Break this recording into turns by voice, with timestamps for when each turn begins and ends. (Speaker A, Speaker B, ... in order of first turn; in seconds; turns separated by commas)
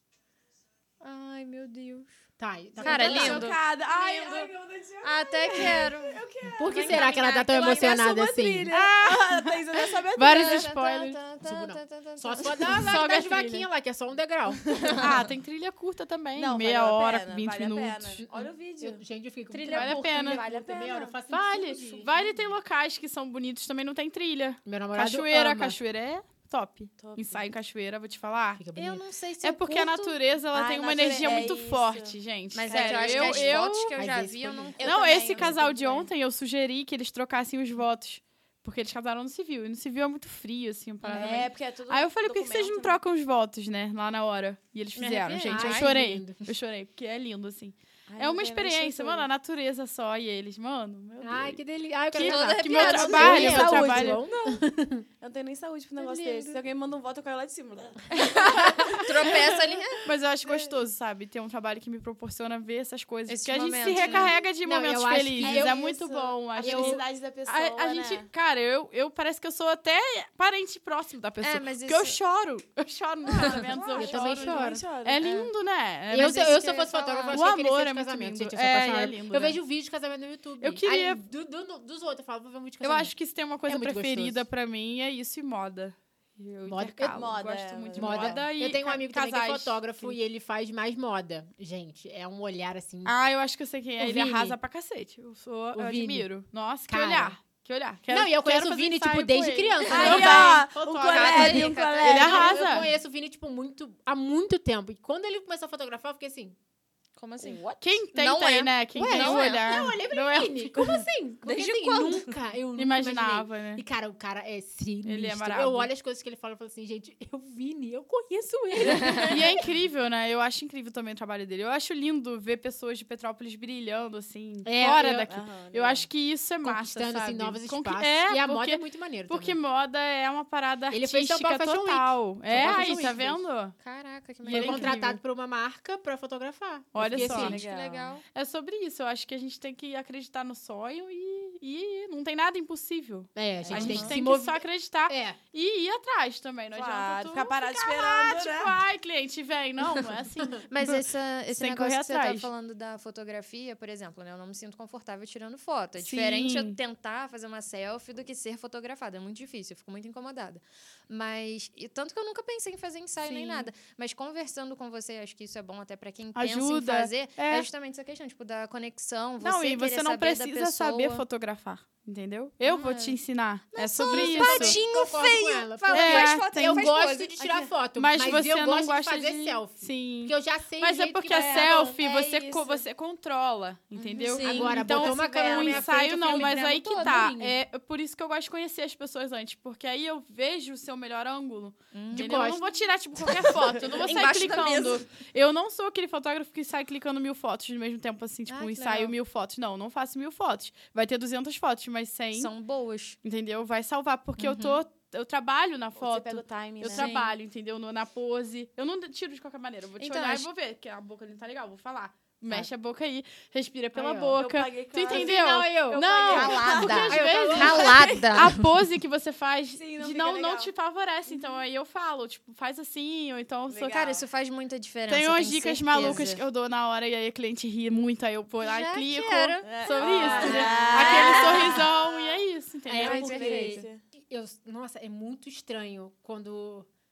Speaker A: 1.0-2.2, Speaker B: 2.4-3.5, Speaker C: 2.8-10.7, Speaker A: 2.8-3.6, Speaker A: 4.1-4.4, Speaker A: 5.0-8.0, Speaker B: 6.5-8.7, Speaker D: 8.7-11.2, Speaker A: 10.3-13.0, Speaker B: 11.4-15.1, Speaker D: 12.7-13.7, Speaker D: 15.0-18.2, Speaker C: 16.4-19.0, Speaker B: 18.2-22.4, Speaker A: 19.5-19.9, Speaker C: 19.6-22.0, Speaker D: 19.7-20.4, Speaker D: 21.3-28.6, Speaker B: 24.6-25.8, Speaker C: 27.0-27.5, Speaker B: 28.6-29.1, Speaker A: 28.8-30.2, Speaker D: 29.4-33.9, Speaker C: 30.5-32.2, Speaker A: 32.5-35.5, Speaker C: 32.7-33.5, Speaker B: 32.8-34.8, Speaker C: 34.8-36.1, Speaker D: 34.8-51.6, Speaker A: 41.0-41.5, Speaker C: 41.1-43.0, Speaker A: 45.0-45.9, Speaker B: 45.5-46.5, Speaker C: 48.1-49.3, Speaker B: 51.2-55.1, Speaker D: 52.1-54.2, Speaker A: 52.1-53.9, Speaker C: 53.2-54.6, Speaker C: 55.2-59.6, Speaker B: 56.0-56.6, Speaker A: 58.2-60.0, Speaker D: 58.4-59.4, Speaker D: 60.0-76.6, Speaker A: 63.3-64.4, Speaker B: 63.9-67.0, Speaker C: 65.4-68.3, Speaker A: 71.4-72.2, Speaker C: 73.4-75.2, Speaker B: 74.0-74.9, Speaker A: 75.2-75.5, Speaker B: 76.1-83.1, Speaker A: 76.2-77.5, Speaker D: 77.3-79.6, Speaker D: 80.6-81.2, Speaker D: 82.8-90.2, Speaker B: 83.7-84.5, Speaker B: 86.7-87.2, Speaker C: 87.1-88.4, Speaker B: 87.9-93.1, Speaker D: 93.0-102.9, Speaker B: 94.0-94.6, Speaker B: 95.7-96.3, Speaker B: 96.9-97.4, Speaker B: 98.1-101.4, Speaker A: 99.9-100.5, Speaker C: 99.9-102.6, Speaker A: 101.1-102.6, Speaker B: 102.2-106.6, Speaker A: 107.2-109.9, Speaker D: 107.8-111.0, Speaker B: 109.0-119.6, Speaker A: 111.4-112.4, Speaker D: 112.8-113.8, Speaker D: 115.0-115.9, Speaker A: 118.9-119.3, Speaker D: 119.3-133.8, Speaker B: 124.7-125.3, Speaker C: 125.3-126.1, Speaker B: 126.6-129.6, Speaker B: 130.9-133.4, Speaker A: 132.6-132.8, Speaker A: 133.8-134.9, Speaker D: 134.4-135.2, Speaker B: 134.5-137.6, Speaker D: 136.9-137.6, Speaker C: 137.2-138.2, Speaker A: 137.3-138.2, Speaker D: 138.3-152.5, Speaker B: 143.3-145.4, Speaker C: 143.7-144.1, Speaker A: 143.8-144.1, Speaker C: 146.7-148.8, Speaker A: 150.7-171.2, Speaker D: 156.0-156.8, Speaker D: 163.2-163.7, Speaker D: 166.3-167.7, Speaker D: 169.4-174.8, Speaker A: 172.7-173.2, Speaker A: 173.8-177.7, Speaker B: 174.1-182.0, Speaker D: 175.9-176.9, Speaker D: 177.9-202.5, Speaker C: 181.3-182.8, Speaker C: 184.1-184.4, Speaker A: 184.2-187.2, Speaker B: 184.4-187.6, Speaker A: 191.9-192.6, Speaker B: 192.1-192.6, Speaker A: 193.8-195.0, Speaker A: 198.5-199.1, Speaker A: 202.3-203.2, Speaker D: 203.2-223.9, Speaker A: 204.4-204.8, Speaker C: 206.0-207.1, Speaker A: 206.9-207.3, Speaker A: 210.0-210.5, Speaker B: 213.9-214.4, Speaker C: 214.3-217.6, Speaker B: 215.1-218.6, Speaker A: 216.3-218.6, Speaker C: 219.8-220.7, Speaker C: 221.3-221.6, Speaker C: 223.7-224.3, Speaker A: 223.9-226.4, Speaker D: 225.1-233.6, Speaker A: 228.6-231.9, Speaker C: 229.6-232.1, Speaker B: 230.2-231.8, Speaker B: 232.9-236.9, Speaker C: 233.0-234.0, Speaker A: 233.0-233.8